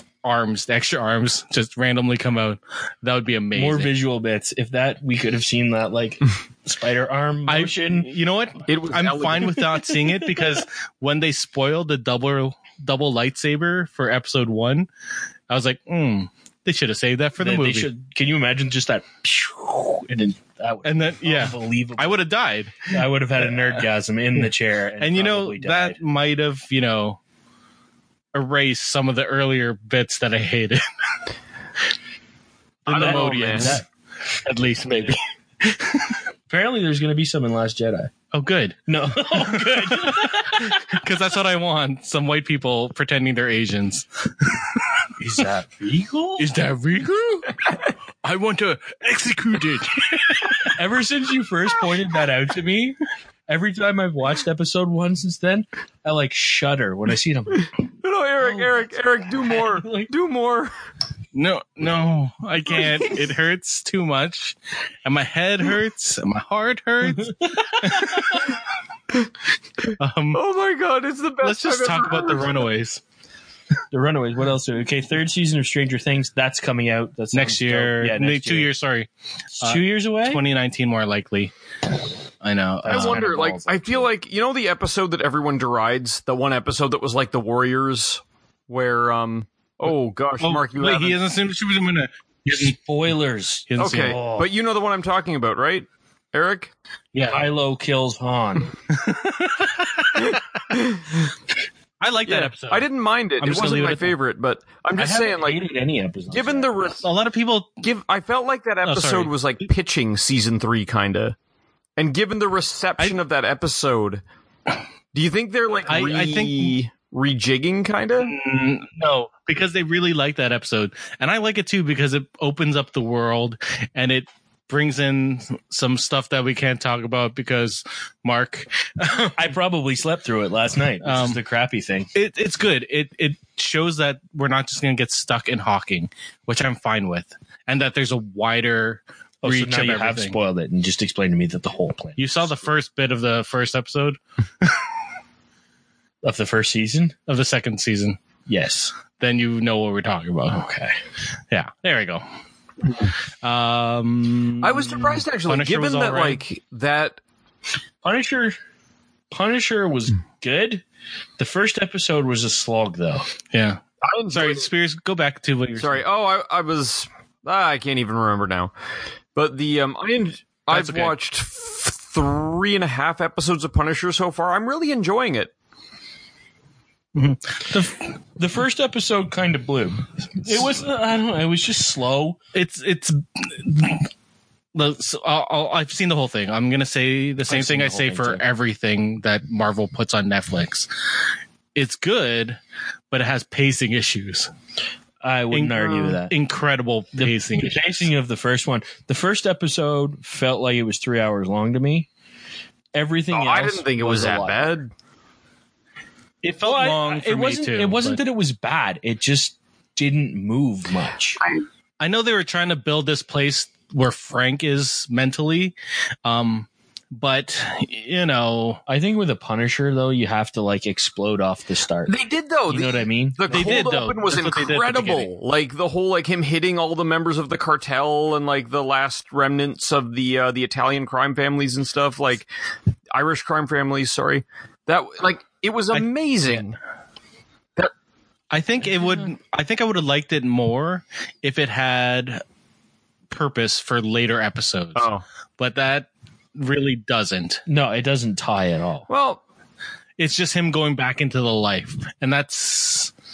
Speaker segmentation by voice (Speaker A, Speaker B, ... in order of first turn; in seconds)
Speaker A: 0.2-3.9, 7.5-14.9, 15.5-17.9, 20.8-22.9, 25.0-27.2, 28.3-30.8, 32.9-33.8, 34.4-36.1, 38.3-38.8, 39.3-45.0, 46.4-47.6, 48.2-50.8, 61.3-68.6, 70.0-70.4, 71.4-73.0, 77.3-79.1, 79.6-81.5, 82.4-83.2, 89.9-92.8, 93.7-94.2, 97.1-97.5, 98.9-100.4, 102.0-102.9, 103.4-104.2, 107.0-107.8, 108.8-109.3, 115.9-116.8, 118.2-129.5, 131.0-131.4, 132.1-140.4, 142.2-144.8, 147.3-148.2, 149.2-150.7, 151.5-152.2, 153.4-156.4, 163.5-163.8, 164.3-166.0, 170.7-171.1, 177.2-178.1, 182.5-184.1, 184.7-190.9, 191.8-192.6, 193.1-194.5, 195.5-198.1, 206.4-208.2, 212.0-218.8, 223.5-225.3, 235.9-236.7, 238.5-242.4, 243.3-245.1, 245.6-247.6, 250.2-253.1
Speaker B: 3.5-8.1, 17.4-22.2, 22.9-26.0, 32.9-33.9, 36.5-38.1, 38.9-41.0, 45.2-46.5, 50.8-57.7, 58.4-58.9, 59.4-60.1, 67.0-68.5, 73.9-78.7, 79.6-80.4, 82.8-84.1, 92.7-94.5, 97.3-98.7, 105.0-106.8, 129.3-132.1, 139.4-142.7, 146.2-147.2, 148.5-148.9, 150.5-150.9, 158.0-158.6, 159.3-160.8, 161.4-163.3, 178.4-182.4, 187.5-188.4, 195.2-196.3, 197.2-202.1, 202.9-204.7, 206.7-211.4, 218.9-222.1, 222.7-223.7, 247.7-249.1
Speaker C: 8.7-9.9, 32.9-33.8, 58.0-60.7, 70.3-72.5, 82.9-91.2, 93.8-96.7, 100.2-101.3, 102.3-105.6, 106.3-107.1, 107.8-111.3, 112.0-114.2, 115.1-118.3, 154.6-157.2, 164.0-164.7, 165.8-168.7, 169.3-175.5, 203.3-204.9, 222.1-232.5, 233.1-236.8, 245.0-245.2, 249.1-249.4